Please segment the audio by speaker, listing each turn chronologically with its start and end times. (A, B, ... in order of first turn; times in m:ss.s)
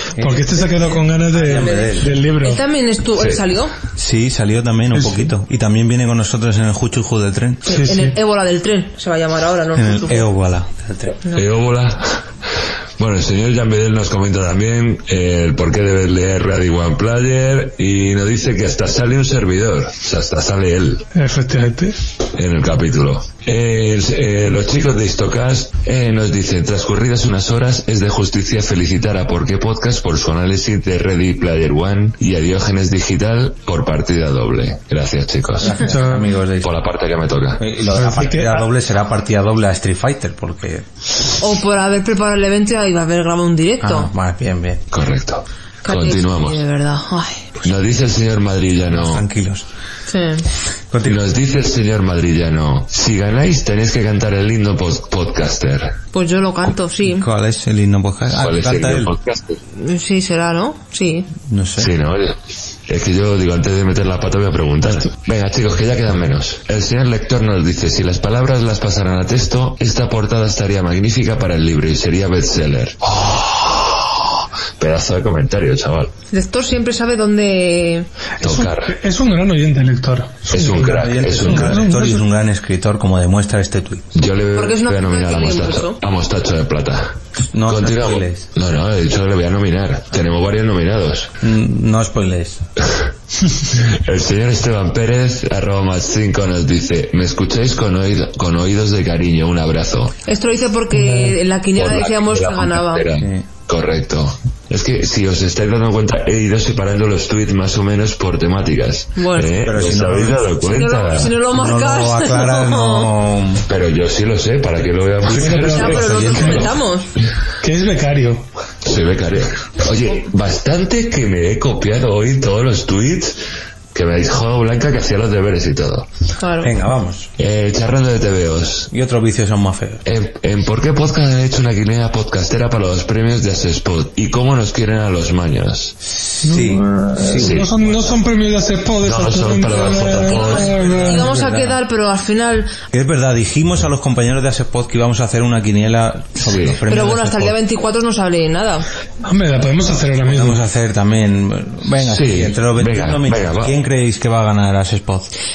0:00.2-0:02.1 A
0:00.2-0:02.6 B
0:01.5-0:03.7 C
0:03.2-0:03.4 D
0:04.0-0:07.7 A
0:05.0-0:05.3 B
0:07.6-0:08.2 B
0:07.7-0:10.3 C
0:09.8-0:11.2 A
0:11.3-0:12.3 D
0:13.0-0:21.0 D
0:21.1-0:22.0 B
0:22.3-0:35.8 D
0:35.6-0:36.7 A
0:35.9-0:36.3 B
0:36.6-0:37.6 D
0:37.6-0:40.8 A
0:37.9-0:38.7 B
0:41.4-0:44.1 C
0:43.8-0:44.8 A
0:44.9-0:46.6 D
0:45.8-0:47.5 C
0:47.6-0:49.2 D
0:48.9-0:49.7 A
0:50.1-0:50.4 C
0:50.9-0:51.2 A
0:51.0-0:56.0 D
0:56.1-0:57.2 C
0:57.0-0:59.1 A
0:58.4-0:59.6 D
0:59.8-1:01.3 C
1:01.5-1:01.9 A
1:01.8-1:16.1 D
1:16.3-1:18.1 C
1:18.4-1:19.0 D
1:18.4-1:22.2 B
1:20.5-1:21.8 D
1:20.7-1:24.1 A
1:24.1-1:31.3 D
1:24.5-1:26.0 C
1:27.5-1:28.5 A
1:31.4-1:32.6 A
1:33.7-1:40.1 D
1:40.3-1:43.1 C
1:41.0-1:41.4 B
1:41.7-1:51.3 D
1:43.2-1:43.4 A
1:49.2-1:49.5 C
1:49.6-1:50.5 A
1:50.6-1:53.1 C
1:51.5-1:53.6 A
1:53.7-1:56.7 D
1:55.2-1:56.7 A
1:55.3-1:56.7 B
1:55.6-1:57.1 C
1:57.6-1:58.4 B
1:58.8-2:03.4 D
2:03.9-2:06.1 D
2:06.4-2:06.7 C
2:06.6-2:07.3 A
2:07.4-2:08.9 D
2:08.9-2:10.0 A
2:10.0-2:16.0 D
2:16.4-2:17.6 A
2:16.4-2:21.2 B
2:17.4-2:17.7 D
2:19.0-2:21.3 D
2:19.8-2:22.7 C
2:21.0-2:21.8 A
2:22.9-2:27.6 A
2:26.4-2:26.8 D
2:26.9-2:28.9 C
2:29.2-2:30.6 B
2:30.2-2:35.3 A
2:32.0-2:33.8 D